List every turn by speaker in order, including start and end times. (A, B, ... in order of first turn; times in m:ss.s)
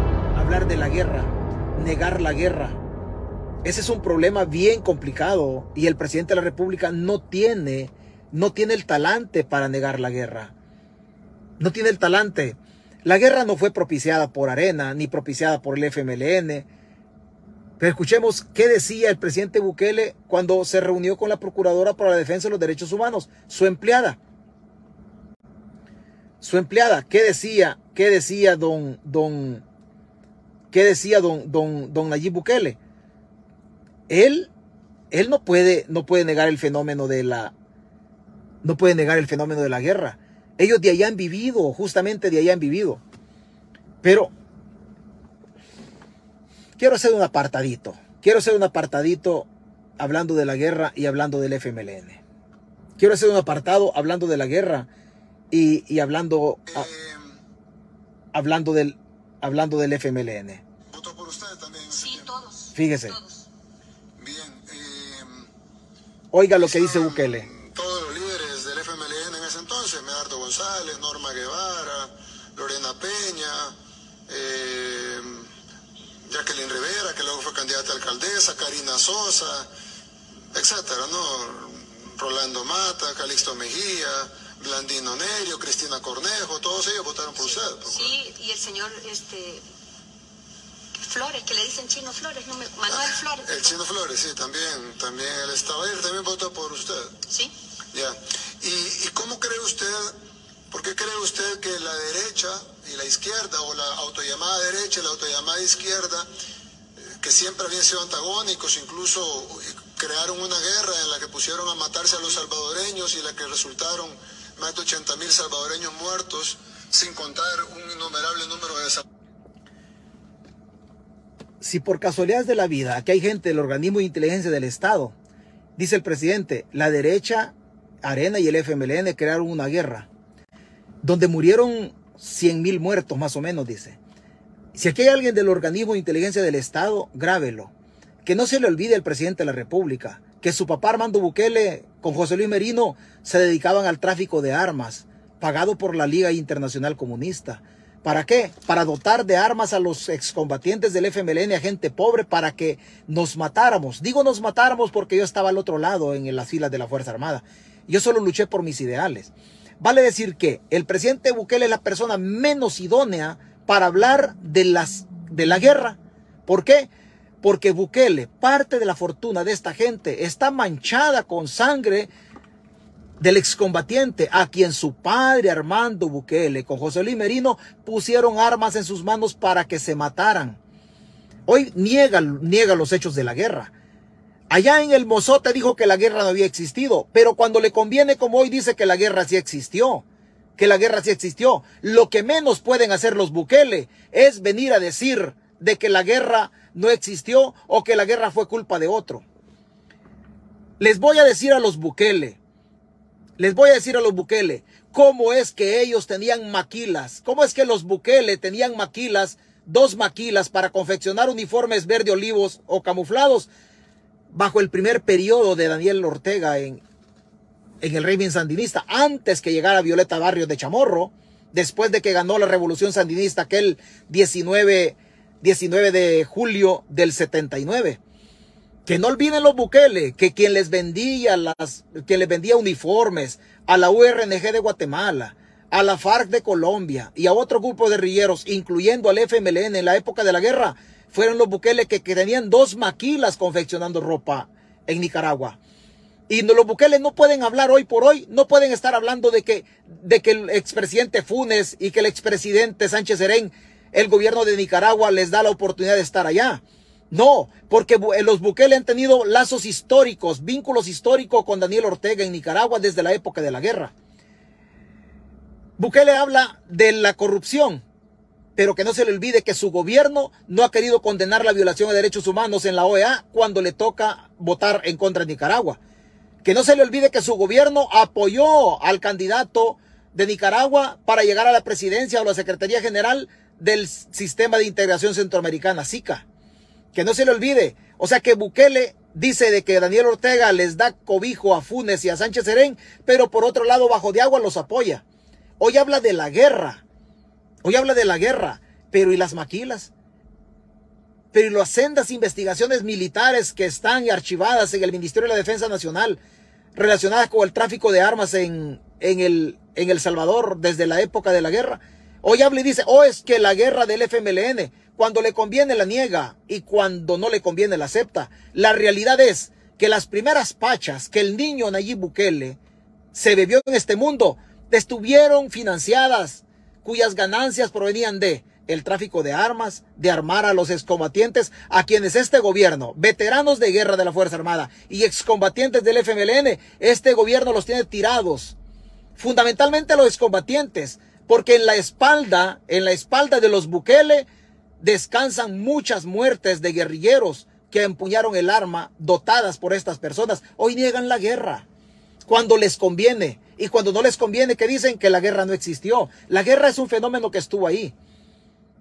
0:00.3-0:02.8 A
0:03.6-0:10.5 A
0:11.6-0:16.7 A
0:17.8-0:24.2 A
0:26.4-0:29.6 A
0:30.7-0:32.8 A
0:34.1-0:34.5 A
0:35.1-0:37.5 A
0:38.6-0:43.0 A
0:44.0-0:44.3 A
0:46.8-0:49.5 A
0:50.0-0:52.2 A
0:53.0-0:54.9 A
0:55.5-0:56.9 A
0:56.7-0:57.4 B
0:58.3-1:00.6 A
1:00.9-1:02.3 B
1:01.9-1:03.4 C
1:02.7-1:03.2 A
1:04.2-1:05.5 B
1:06.3-1:07.5 A
1:06.6-1:13.7 B
1:14.3-1:15.5 B
1:16.2-1:19.7 B
1:20.5-1:28.1 B
1:27.4-1:29.6 C
1:30.9-1:33.8 C
1:32.9-1:37.2 B
1:37.3-1:37.5 C
1:37.9-1:40.2 B
1:40.7-1:46.3 B
1:47.2-1:59.0 B
2:01.6-2:05.1 A
2:05.8-2:10.1 A
2:11.0-2:14.0 A
2:14.7-2:17.7 A
2:18.2-2:46.9 A
2:47.4-2:52.1 A
2:53.2-3:00.6 A
3:01.5-3:03.7 A
3:04.5-3:10.0 A
3:10.6-3:19.2 A
3:20.8-3:22.4 A
3:23.4-3:33.5 A
3:34.3-3:36.8 A
3:37.8-3:48.0 A
3:48.8-4:05.6 A
4:06.3-4:23.9 A
4:25.8-4:27.8 A
4:28.6-4:35.8 A
4:36.4-4:46.2 A
4:46.9-4:55.0 A
4:55.6-4:56.8 A
4:57.6-4:59.9 A
5:01.3-5:06.2 A
5:06.7-5:22.6 A
5:23.1-5:38.5 A
5:39.2-5:44.3 A
5:44.8-5:51.6 A
5:52.2-5:57.9 A